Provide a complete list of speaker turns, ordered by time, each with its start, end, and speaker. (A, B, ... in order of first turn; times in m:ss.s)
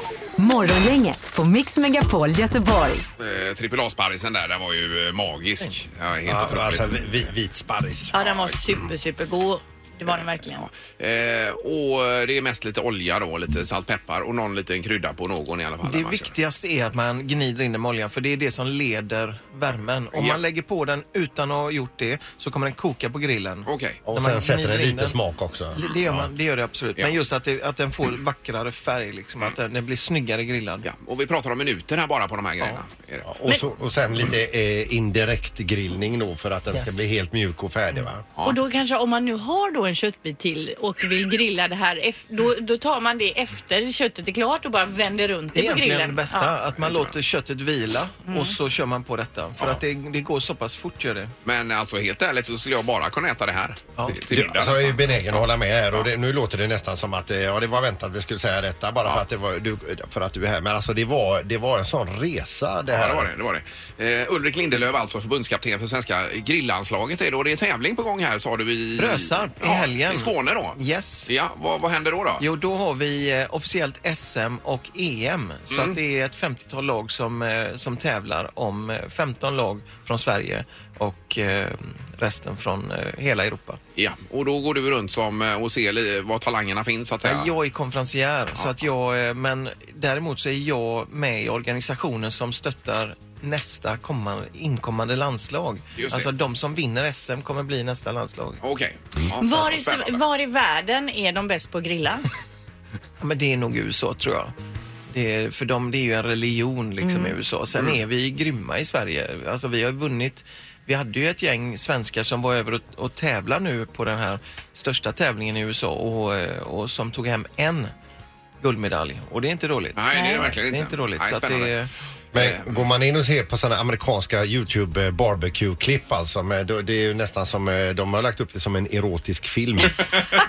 0:00.4-0:03.0 A
0:03.2-0:07.3 B
0:06.3-0:08.2 C
0:08.1-0:10.7 D
0:08.3-0:08.5 B
0:10.6-0:16.3 B
0:15.8-0:25.2 E
0:20.1-0:20.4 B
0:23.7-0:24.0 B
0:24.1-0:26.3 C
0:25.7-0:30.9 E
0:30.8-0:33.3 B
0:33.2-0:38.2 C
0:38.4-0:46.5 D
0:45.5-0:51.3 E
0:46.8-0:47.2 B
0:48.3-0:48.5 D
0:51.4-0:56.1 B
0:54.3-1:03.3 C
1:02.9-1:12.4 B
1:09.0-1:11.3 E
1:12.4-1:23.8 E
1:15.7-1:16.0 B
1:24.0-1:27.5 B
1:27.2-1:38.6 E
1:36.0-1:36.3 B
1:38.6-1:40.2 B
1:39.4-1:42.2 D
1:43.2-1:44.5 E
1:45.1-1:57.9 E
1:47.0-1:47.3 D
1:58.6-2:01.9 E
2:00.0-2:01.8 B
2:00.1-2:00.5 D
2:02.3-2:02.8 B
2:02.3-2:10.1 C